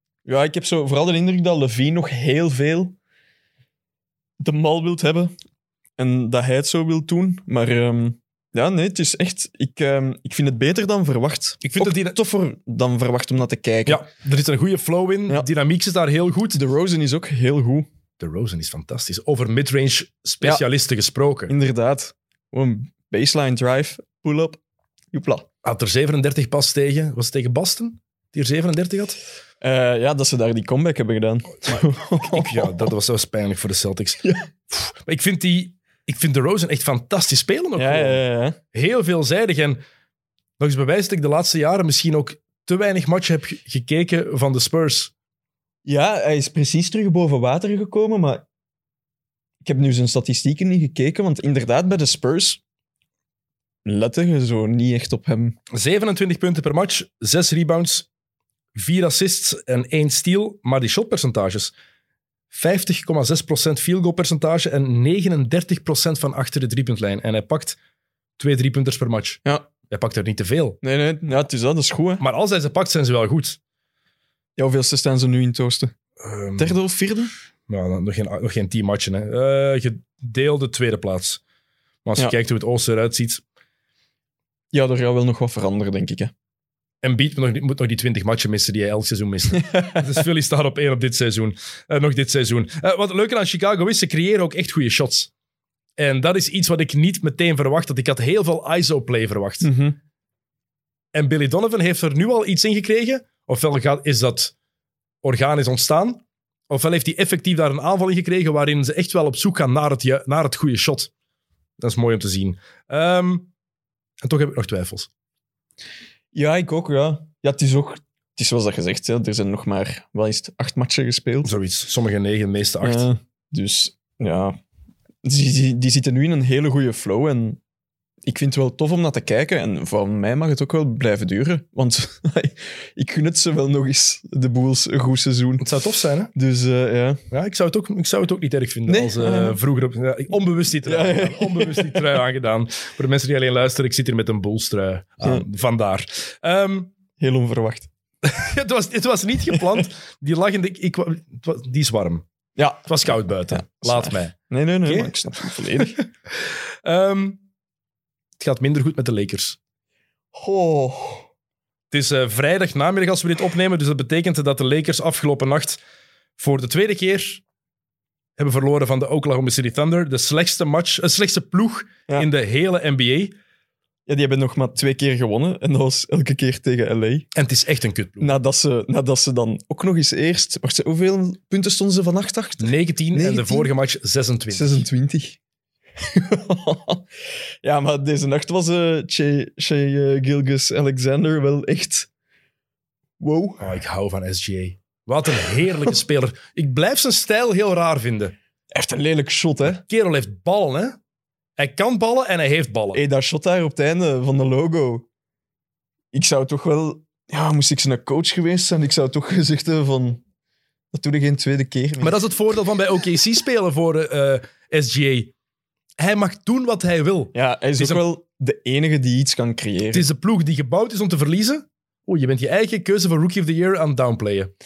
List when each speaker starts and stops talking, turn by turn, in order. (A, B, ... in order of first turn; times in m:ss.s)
0:00.2-0:03.0 A
0:04.4-0:05.3 A
0:06.0-0:14.0 A
0:11.6-0:12.2 B
0:13.9-0:16.6 B
0:16.5-0:17.9 A
0:18.2-0:21.5 B
0:21.5-0:24.6 A
0:25.1-0:25.5 A
0:25.6-0:29.2 B
0:29.6-0:32.9 A
0:31.7-0:34.2 B
0:34.7-0:38.2 B
0:37.8-0:38.6 A
0:38.7-0:39.8 B
0:40.6-0:45.1 B
0:45.8-0:48.4 A
0:49.6-0:52.6 A
0:53.8-0:55.6 A
0:55.7-0:58.1 B
0:58.8-1:01.7 B
1:02.5-1:07.8 B
1:08.4-1:10.8 B
1:10.8-1:12.2 A
1:12.2-1:13.6 B
1:14.6-1:15.9 A
1:16.2-1:16.8 B
1:16.6-1:17.3 A
1:17.7-1:21.4 B
1:22.0-1:23.4 B
1:24.7-1:26.3 A
1:27.0-1:35.3 B
1:29.5-1:30.2 A
1:36.0-1:39.7 B
1:39.6-1:40.0 A
1:41.1-1:44.5 B
1:45.2-1:51.1 B
1:51.8-1:53.5 B
1:54.2-1:55.1 B
1:56.3-2:01.5 A
2:01.4-2:03.1 B
2:02.8-2:04.6 A
2:05.2-2:07.6 A
2:08.2-2:15.8 A
2:15.6-2:16.3 B
2:16.3-2:17.2 A
2:17.3-2:26.9 B
2:18.9-2:19.6 A
2:20.8-2:22.2 A
2:27.2-2:27.9 A
2:28.2-2:32.2 B
2:32.6-2:36.0 A
2:32.8-2:35.1 B
2:35.8-2:36.1 B
2:36.8-2:37.4 B
2:38.4-2:39.6 B
2:40.3-2:41.3 A
2:41.9-2:45.8 B
2:46.4-2:47.4 B
2:48.4-2:53.3 B
2:54.1-2:57.3 A
2:57.3-2:58.4 B
2:58.2-3:03.7 A
3:02.6-3:04.9 B
3:04.5-3:05.4 A
3:06.0-3:07.0 A
3:07.6-3:12.1 A
3:13.2-3:13.6 A
3:13.6-3:18.3 B
3:18.7-3:19.8 A
3:19.7-3:21.0 B
3:21.6-3:23.0 B
3:22.9-3:25.1 A
3:26.1-3:30.2 A
3:30.9-3:32.2 A
3:32.0-3:35.3 B
3:36.0-3:38.0 B
3:37.3-3:40.1 A
3:39.9-3:44.5 B